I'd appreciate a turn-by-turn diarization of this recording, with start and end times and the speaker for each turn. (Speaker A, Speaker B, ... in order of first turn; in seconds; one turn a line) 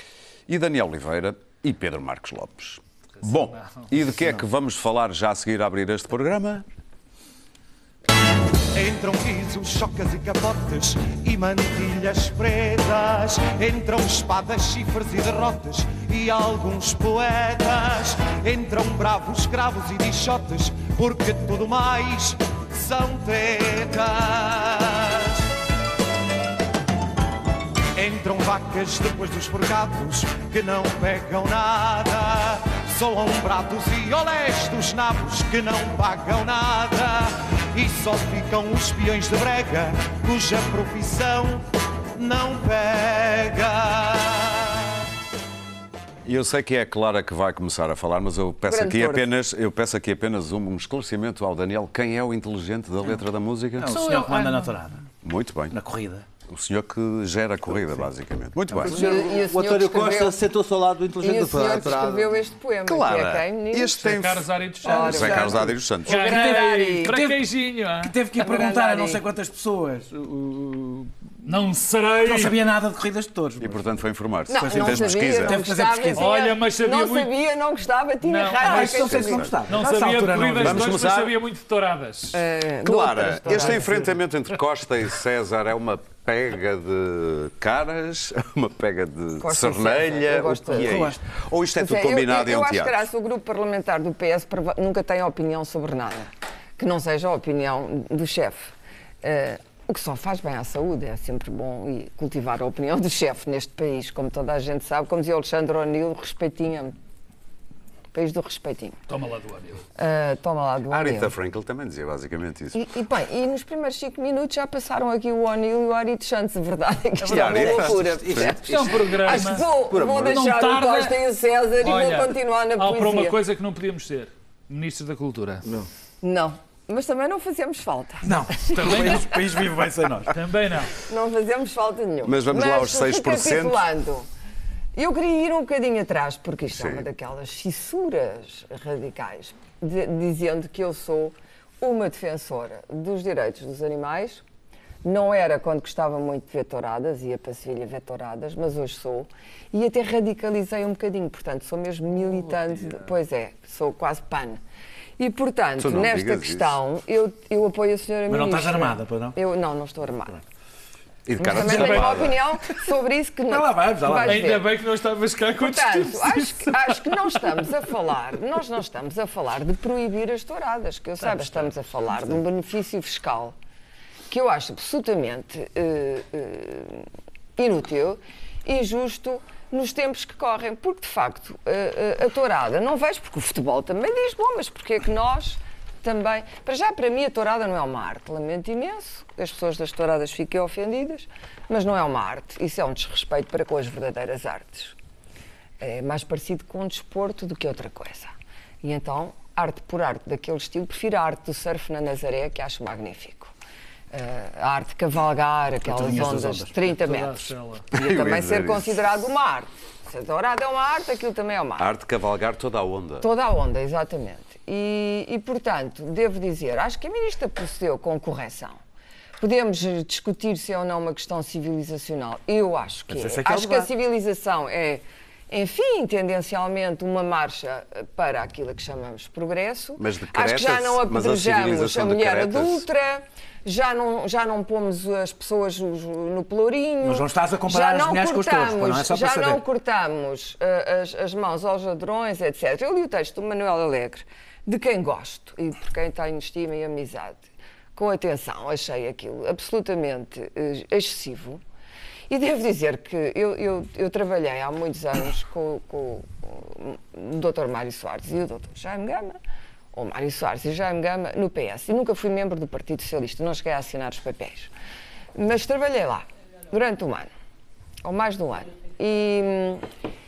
Speaker A: 0.5-6.6
Speaker B: 4.1-4.4
Speaker C: 8.7-25.4
Speaker C: 27.9-45.0
Speaker A: 46.2-53.9
Speaker D: 48.7-49.2
Speaker B: 53.8-55.1
Speaker E: 53.9-54.7
Speaker A: 55.2-55.8
Speaker B: 55.7-56.3
Speaker A: 56.5-59.0
Speaker B: 58.7-59.0
Speaker F: 58.8-62.4
Speaker D: 58.9-60.4
Speaker D: 61.2-64.2
Speaker A: 62.9-66.2
Speaker E: 64.0-65.5
Speaker B: 64.8-65.7
Speaker D: 64.8-67.1
Speaker E: 66.0-68.1
Speaker B: 66.2-71.1
Speaker D: 68.4-69.2
Speaker E: 71.4-72.5
Speaker B: 72.2-73.8
Speaker A: 73.6-75.6
Speaker D: 74.5-79.5
Speaker B: 74.5-76.3
Speaker E: 76.2-77.3
Speaker E: 78.2-79.2
Speaker B: 78.6-81.0
Speaker A: 79.0-79.5
Speaker E: 79.7-82.4
Speaker A: 80.6-81.3
Speaker D: 82.3-84.0
Speaker A: 82.8-93.0
Speaker D: 89.4-91.0
Speaker B: 90.7-91.2
Speaker D: 91.7-107.0
Speaker D: 108.1-109.0
Speaker E: 109.1-109.8
Speaker D: 110.0-111.3
Speaker A: 110.9-112.8
Speaker D: 112.7-123.3
Speaker A: 117.2-118.9
Speaker F: 117.3-120.3
Speaker E: 118.6-121.2
Speaker E: 121.8-125.7
Speaker D: 126.2-129.1
Speaker B: 128.2-130.4
Speaker E: 128.7-130.9
Speaker D: 131.0-134.2
Speaker A: 132.2-133.8
Speaker D: 134.9-144.4
Speaker A: 136.7-137.0
Speaker D: 145.0-154.6
Speaker E: 152.2-153.0
Speaker D: 155.2-160.4
Speaker A: 155.8-156.8
Speaker B: 158.3-159.3
Speaker A: 161.2-162.4
Speaker D: 161.4-164.7
Speaker E: 161.6-162.3
Speaker B: 163.5-164.5
Speaker E: 164.2-167.7
Speaker D: 165.6-173.5
Speaker E: 171.2-171.6
Speaker D: 174.3-194.9
Speaker D: 195.8-203.5
Speaker D: 204.1-211.9
Speaker B: 205.8-206.8
Speaker E: 206.8-207.8
Speaker A: 207.9-209.0
Speaker A: 211.8-213.3
Speaker D: 213.2-218.8
Speaker D: 219.4-251.6
Speaker A: 223.1-223.9
Speaker A: 230.0-232.9
Speaker B: 237.0-239.6
Speaker D: 252.3-259.4
Speaker D: 259.9-264.7
Speaker D: 265.3-267.3
Speaker D: 268.0-269.8